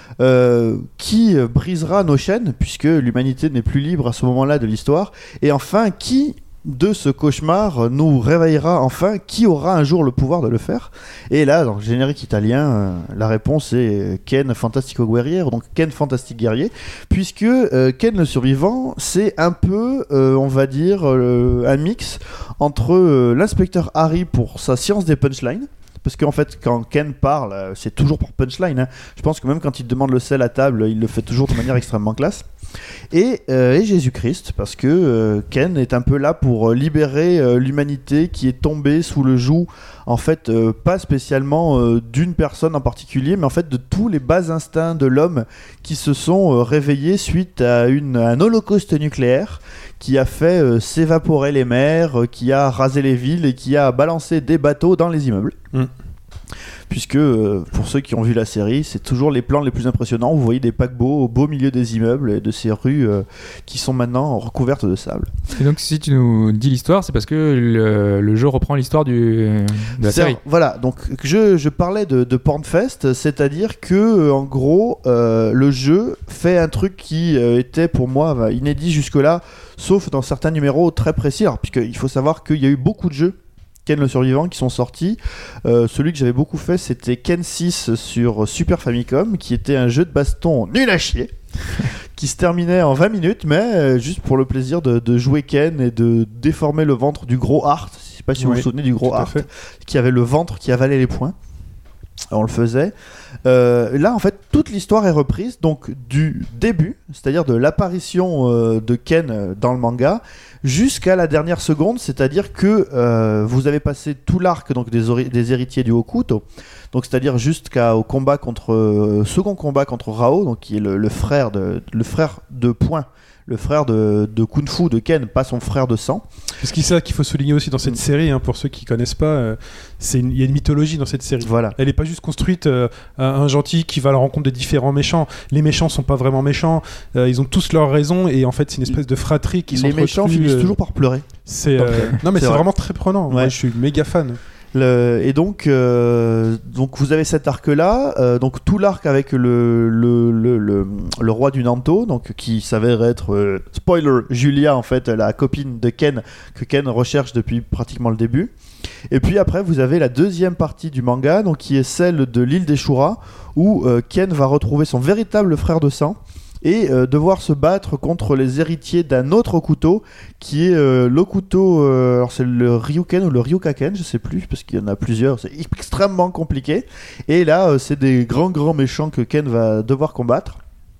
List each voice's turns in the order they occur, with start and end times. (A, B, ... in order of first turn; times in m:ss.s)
0:00.2-0:32.4 A
0:33.1-0:55.6 A
0:56.9-1:05.3 A
1:05.5-1:10.4 B
1:10.0-1:41.3 A
1:38.4-1:39.4 C
1:42.3-1:42.9 A
1:43.4-2:06.2 A
2:06.6-2:20.8 C
2:11.4-2:11.7 A
2:19.7-2:21.2 A
2:21.4-2:24.4 C
2:21.8-2:22.6 A
2:23.3-2:23.5 A
2:24.7-2:38.5 A
2:39.1-3:00.6 A